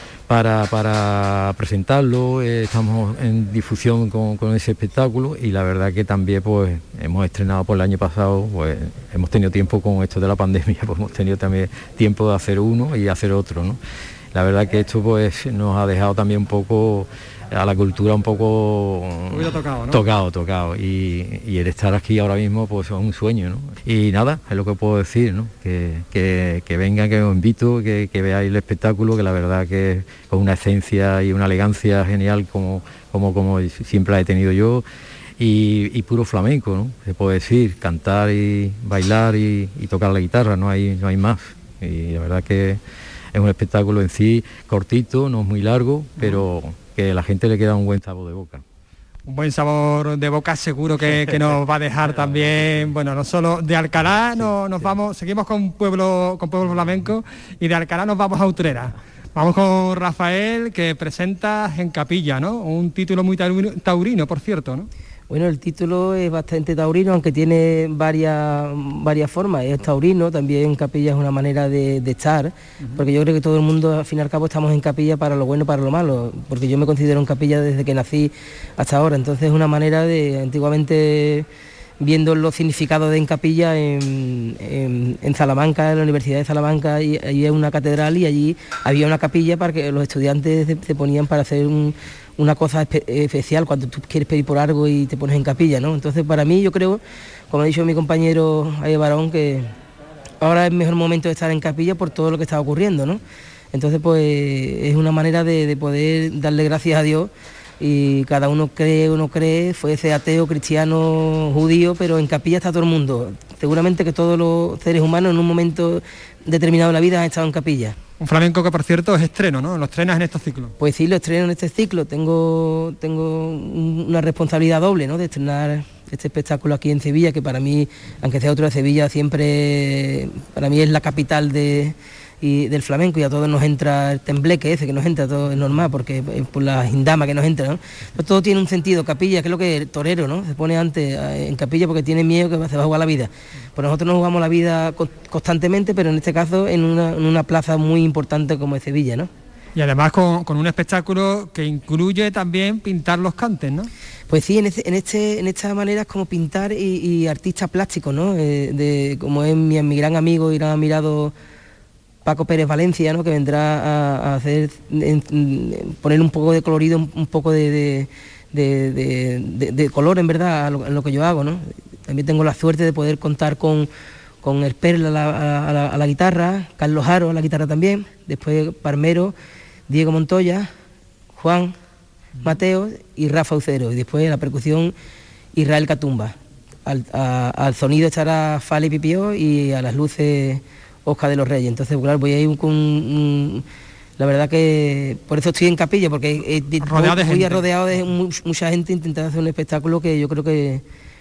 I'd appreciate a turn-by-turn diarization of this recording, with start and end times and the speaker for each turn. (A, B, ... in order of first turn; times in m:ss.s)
0:00.3-0:13.8 A
0:14.3-0:34.8 A
0:19.3-0:20.0 B
0:35.4-0:42.8 A
0:43.3-0:48.6 A
0:46.2-0:46.4 B
0:49.3-1:04.9 B
0:52.1-0:52.6 A
0:54.3-0:55.0 A
1:05.3-1:21.5 C
1:22.0-1:39.7 C
1:40.4-1:43.2 C
1:43.7-1:58.0 C
1:58.2-2:00.7 B
2:00.8-2:29.3 C
2:29.8-2:33.9 B
2:34.3-2:41.3 C
2:42.2-2:53.9 C
2:54.4-2:59.4 C
2:59.9-3:00.7 C
3:01.4-3:01.8 C
3:02.4-3:04.9 C
3:05.6-3:13.6 C
3:14.2-3:20.8 C
3:16.8-3:17.6 B